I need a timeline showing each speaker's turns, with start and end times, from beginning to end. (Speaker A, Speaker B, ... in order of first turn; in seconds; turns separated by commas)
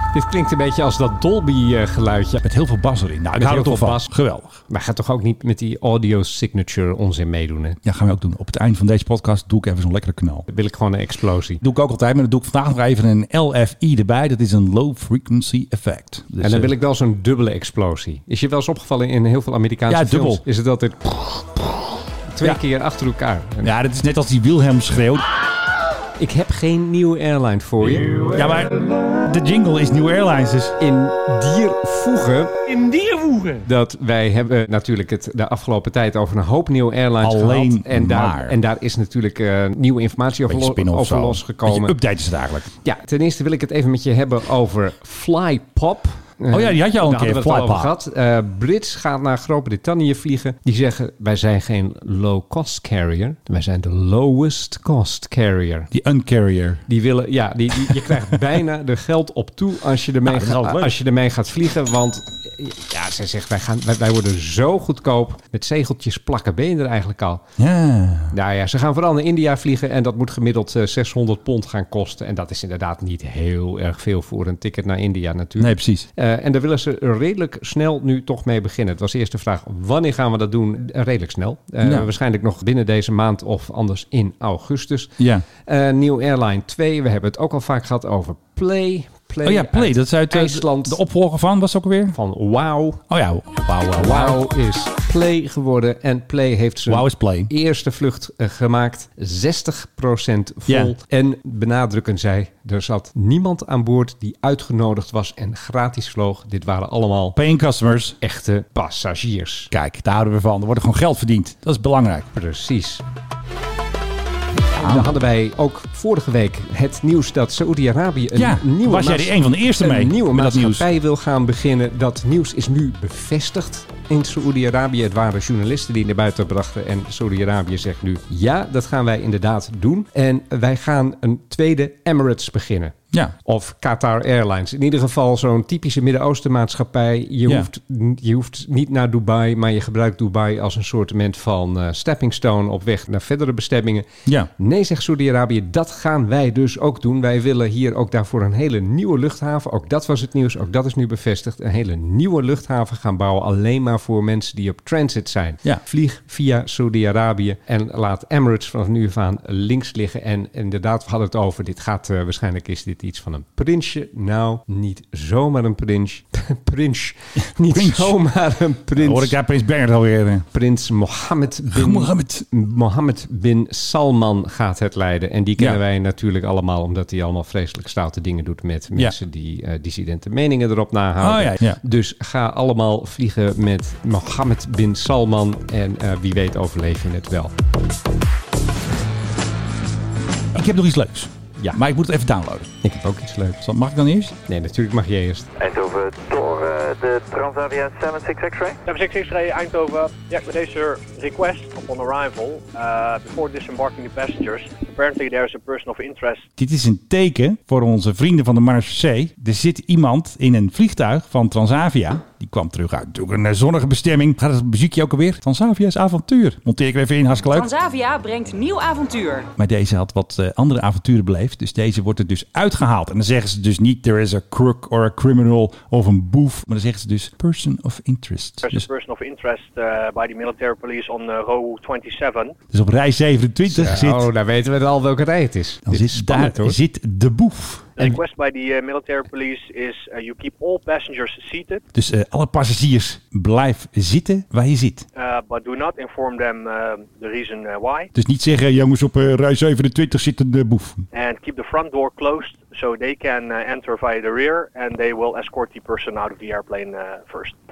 Speaker A: 0.1-2.4, Speaker B: 2.4-4.6, Speaker A: 3.3-4.1, Speaker A: 4.7-7.8, Speaker B: 7.8-10.4, Speaker A: 10.5-11.6, Speaker B: 11.6-16.7, Speaker A: 16.4-21.6, Speaker B: 19.9-20.4, Speaker A: 22.3-23.7, Speaker B: 23.6-25.2, Speaker A: 26.2-28.1, Speaker B: 28.2-30.8, Speaker A: 30.8-32.7, Speaker B: 33.1-33.4, Speaker A: 33.6-42.0, Speaker B: 37.2-38.6, Speaker B: 40.5-42.7, Speaker A: 42.8-55.9, Speaker B: 46.5-47.9, Speaker B: 55.9-56.8, Speaker A: 56.9-67.4, Speaker B: 60.2-60.9, Speaker B: 67.6-68.3, Speaker A: 68.3-91.0, Speaker B: 75.6-76.1, Speaker B: 81.8-82.1, Speaker B: 85.2-85.4, Speaker B: 89.4-92.2, Speaker A: 92.1-93.0, Speaker B: 93.1-94.4, Speaker A: 94.0-107.4, Speaker B: 96.9-97.5, Speaker B: 100.7-100.9, Speaker B: 107.3-108.2, Speaker A: 108.2-109.7, Speaker B: 109.7-112.3, Speaker A: 112.3-113.0, Speaker B: 114.8-115.1, Speaker A: 114.8-169.4, Speaker B: 118.3-120.9, Speaker B: 167.7-168.2, Speaker B: 168.9-170.5, Speaker A: 170.5-187.5, Speaker B: 171.7-172.4, Speaker B: 181.2-181.8, Speaker B: 190.5-192.7, Speaker A: 192.8-193.6, Speaker B: 193.6-194.3, Speaker A: 194.5-195.5, Speaker C: 195.6-198.8, Speaker D: 198.8-206.5, Speaker B: 206.6-217.7, Speaker E: 217.5-219.5, Speaker B: 219.6-228.9, Speaker D: 228.6-232.6, Speaker B: 232.7-234.3, Speaker A: 233.7-236.8, Speaker B: 235.9-238.2, Speaker D: 237.9-241.8, Speaker B: 241.9-245.1, Speaker D: 245.2-248.1, Speaker B: 248.1-251.1, Speaker D: 251.1-257.5